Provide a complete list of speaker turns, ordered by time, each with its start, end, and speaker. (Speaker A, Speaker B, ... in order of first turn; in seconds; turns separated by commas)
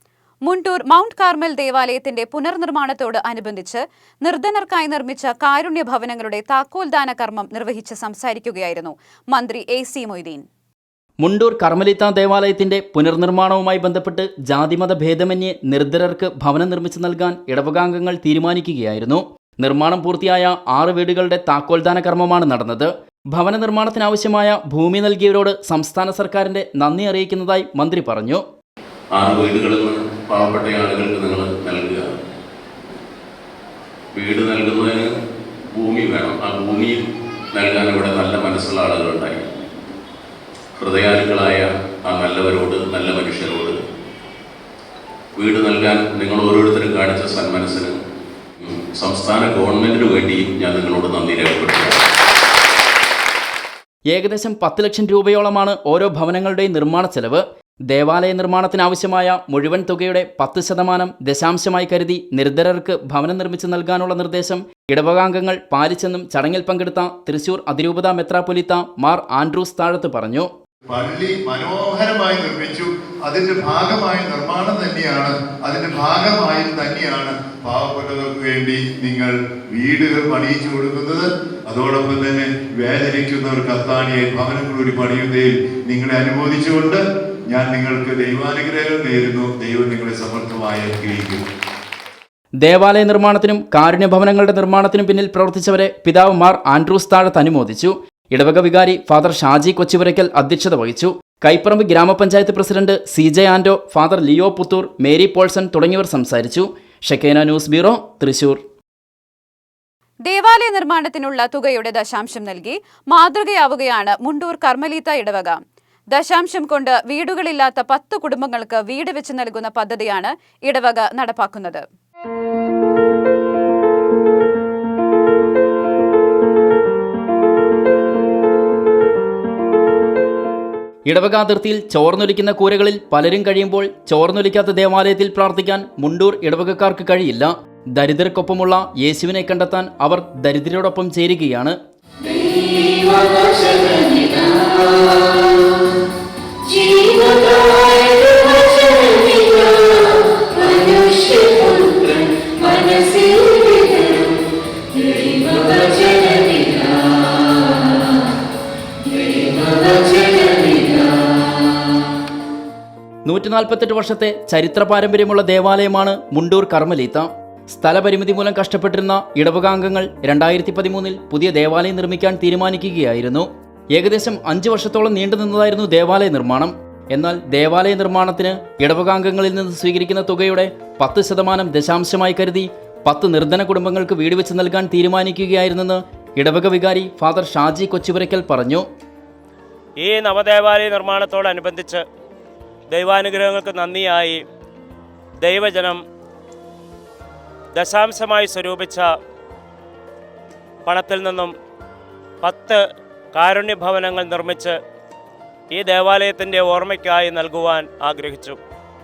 Speaker A: 0.5-10.4, Speaker B: 11.2-28.4, Speaker C: 29.1-32.1, Speaker C: 34.2-35.1, Speaker C: 35.7-39.5, Speaker C: 40.8-43.8, Speaker C: 45.4-48.0, Speaker C: 48.6-52.0, Speaker B: 54.1-70.5, Speaker D: 70.9-91.4, Speaker B: 92.6-108.6, Speaker A: 110.3-115.6, Speaker A: 116.1-121.8, Speaker B: 131.1-141.8, Speaker B: 163.3-188.8, Speaker E: 190.0-192.0, Speaker E: 192.9-194.4, Speaker E: 195.4-196.0, Speaker E: 197.8-199.1, Speaker E: 200.9-201.5, Speaker E: 202.4-202.8, Speaker E: 203.3-204.8, Speaker E: 205.7-208.6